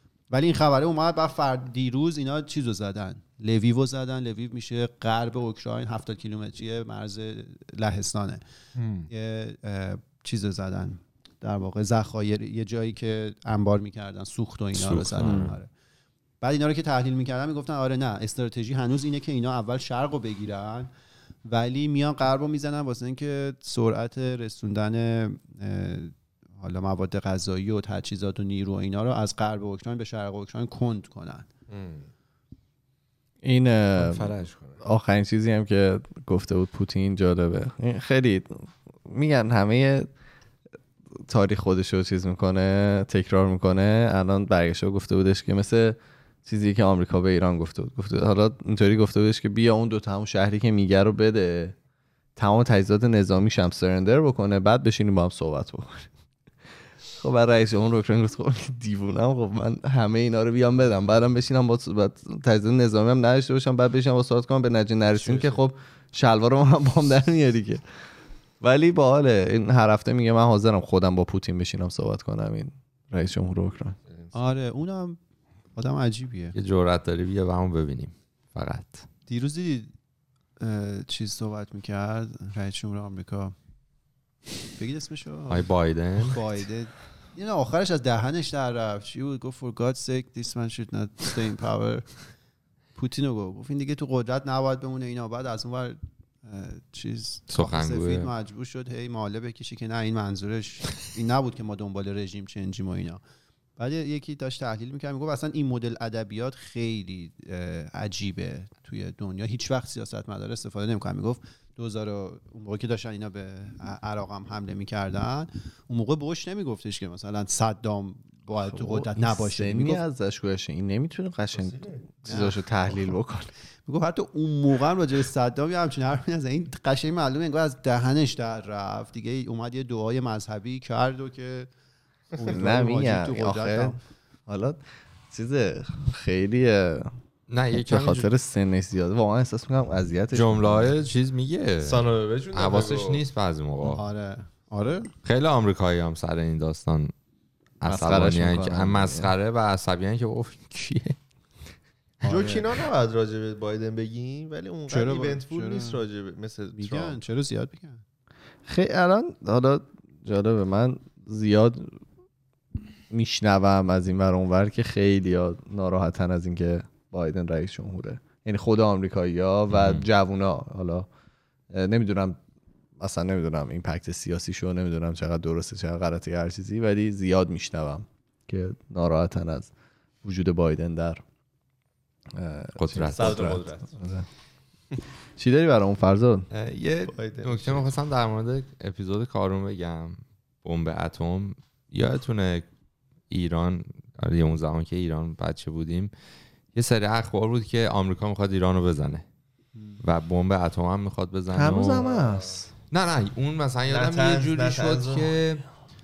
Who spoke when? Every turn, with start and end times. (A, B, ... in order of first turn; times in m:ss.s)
0:00.3-0:08.4 A
0:08.8-0:09.1 B
0:09.1-0:15.7 A
0:14.7-0:15.5 C
0:15.2-0:15.5 D
0:16.4-0:20.9 A
0:21.4-0:31.5 A
0:31.7-0:32.1 B
0:33.4-0:40.1 D
0:34.0-0:34.8 B
0:41.1-0:51.7 D
0:52.4-0:56.1 D
0:57.2-1:07.8 D
1:05.1-1:05.6 B
1:08.6-1:14.0 D
1:14.1-1:14.3 B
1:14.3-1:15.2 A
1:15.7-1:16.6 A
1:16.5-1:19.0 C
1:19.3-1:19.9 A
1:20.6-1:23.5 A
1:24.8-1:32.1 A
1:25.5-1:26.4 C
1:33.0-1:43.2 A
1:37.5-1:38.3 C
1:43.8-2:00.0 A
1:58.6-2:03.5 D
2:01.5-2:02.1 B
2:02.2-2:02.6 A
2:03.8-2:11.7 A
2:12.3-2:14.0 A
2:12.4-2:17.1 D
2:17.5-2:18.3 C
2:17.7-2:20.9 D
2:20.3-2:24.0 C
2:21.8-2:23.2 B
2:23.8-2:25.1 A
2:25.2-2:27.1 C
2:27.8-2:31.2 C
2:27.8-2:29.3 D
2:32.2-2:32.7 A
2:32.2-2:37.2 B
2:34.9-2:36.0 A
2:36.7-2:38.0 A
2:38.6-2:42.0 D
2:43.1-2:51.1 D
2:49.7-2:50.0 C
2:51.7-2:52.4 D
2:53.0-2:59.7 D
3:00.2-3:01.2 D
3:02.3-3:04.3 D
3:02.8-3:03.6 C
3:03.1-3:03.9 B
3:05.4-3:06.5 D
3:06.5-3:12.7 C
3:07.1-3:07.9 B
3:13.3-3:16.1 C
3:16.7-3:19.2 C
3:20.0-3:22.0 C
3:21.5-3:22.7 D
3:21.8-3:22.6 B
3:22.9-3:25.6 C
3:23.9-3:25.4 B